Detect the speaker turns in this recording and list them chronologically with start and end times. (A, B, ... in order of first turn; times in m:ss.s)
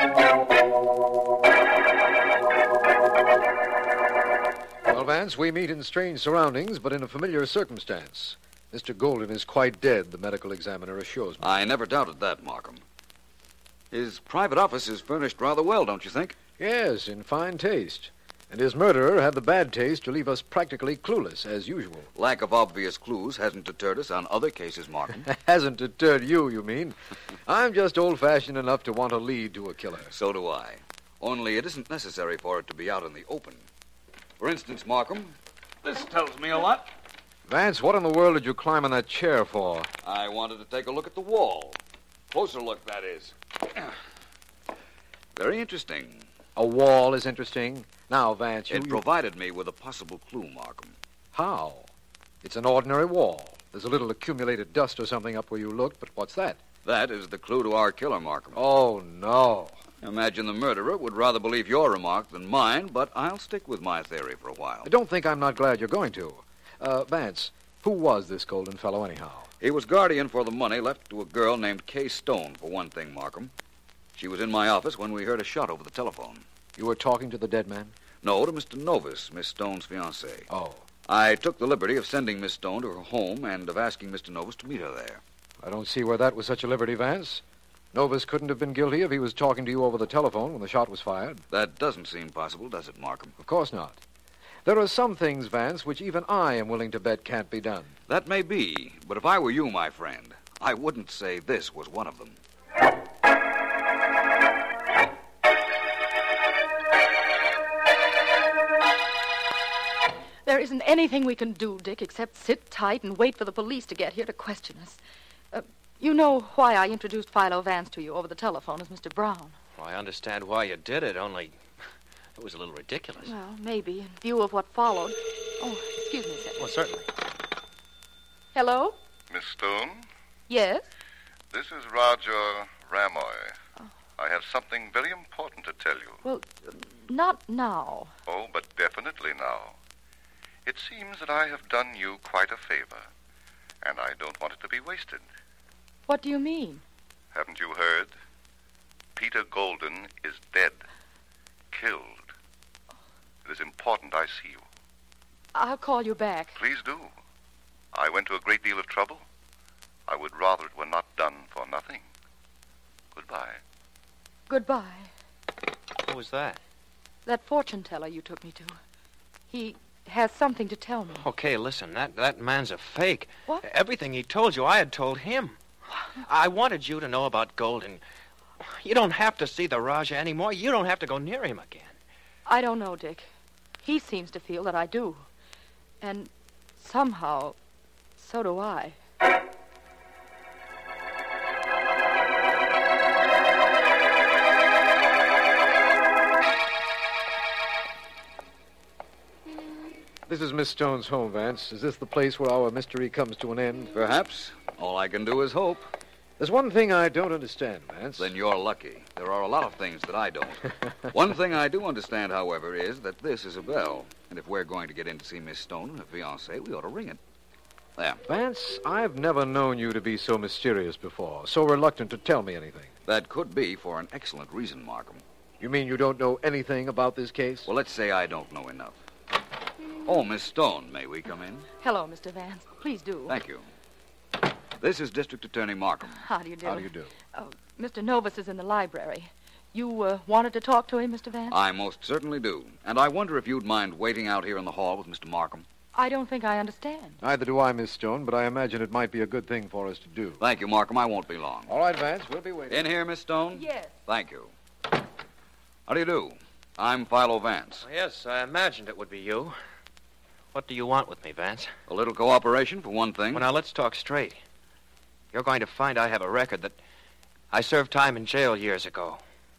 0:04.8-0:11.5 A
0:11.4-0:12.8 B
0:13.9-0:16.4 B
0:16.6-0:22.1 A
0:22.2-0:25.3 B
0:25.3-0:30.1 A
0:30.1-0:33.6 B
0:34.4-0:36.9 B
0:37.5-0:39.9 A
0:40.0-0:41.8 B
0:42.3-0:44.0 B
0:45.4-0:46.3 B
0:46.6-0:49.0 A
0:48.7-0:50.9 B
0:51.3-0:51.9 A
0:52.4-0:56.6 A
0:56.8-0:58.6 B
0:58.5-0:59.8 A
1:00.0-1:04.9 B
1:04.8-1:09.5 A
1:09.6-1:13.5 B
1:14.1-1:16.4 B
1:16.8-1:17.9 A
1:18.2-1:20.5 B
1:20.5-1:20.8 A
1:21.1-1:25.2 B
1:25.6-1:27.4 A
1:27.9-1:31.4 A
1:31.5-1:33.3 B
1:33.4-1:34.0 A
1:34.6-1:37.9 A
1:38.1-1:42.4 B
1:50.4-1:55.0 C
1:55.5-1:59.5 C
1:59.8-2:01.6 D
2:02.3-2:03.3 D
2:03.2-2:06.6 C
2:06.6-2:07.1 D
2:08.5-2:09.0 C
2:09.3-2:10.1 E
2:10.5-2:10.8 C
2:11.5-2:13.5 E
2:14.2-2:16.2 E
2:16.2-2:18.1 C
2:18.3-2:19.8 E
2:20.6-2:23.1 E
2:23.8-2:25.2 E
2:26.1-2:26.8 C
2:27.3-2:28.1 E
2:29.2-2:30.8 E
2:31.7-2:32.3 E
2:33.4-2:34.6 E
2:35.5-2:36.6 C
2:36.6-2:37.1 E
2:37.9-2:39.2 E
2:40.1-2:42.0 E
2:43.1-2:43.6 E
2:44.5-2:45.1 C
2:46.0-2:46.6 D
2:47.2-2:48.8 C
2:49.5-2:51.2 C
2:51.2-2:55.6 D
2:56.2-2:58.0 D
2:58.7-3:01.9 D
3:02.4-3:03.3 C
3:03.8-3:05.2 C
3:06.0-3:07.6 C
3:08.2-3:09.0 C
3:20.3-3:23.9 A
3:23.9-3:25.9 B
3:26.4-3:28.3 A
3:28.2-3:37.2 B
3:38.0-3:38.2 B
3:38.2-3:42.9 A
3:43.0-3:45.2 B
3:45.6-3:47.7 A
3:47.7-3:49.0 B
3:50.0-3:51.7 B
3:51.8-3:53.3 C
3:53.3-3:53.6 B
3:54.8-3:56.2 B
3:56.1-4:01.6 C
3:56.6-3:57.1 A
4:01.5-4:05.6 B
4:05.9-4:07.2 C
4:07.2-4:10.4 A
4:10.4-4:11.7 B
4:11.7-4:12.9 A
4:12.7-4:14.5 B
4:13.5-4:13.9 C
4:15.9-4:17.8 B
4:17.8-4:19.6 D
4:20.5-4:21.7 D
4:21.9-4:23.5 B
4:23.3-4:24.4 D
4:25.3-4:26.8 D
4:27.5-4:29.2 D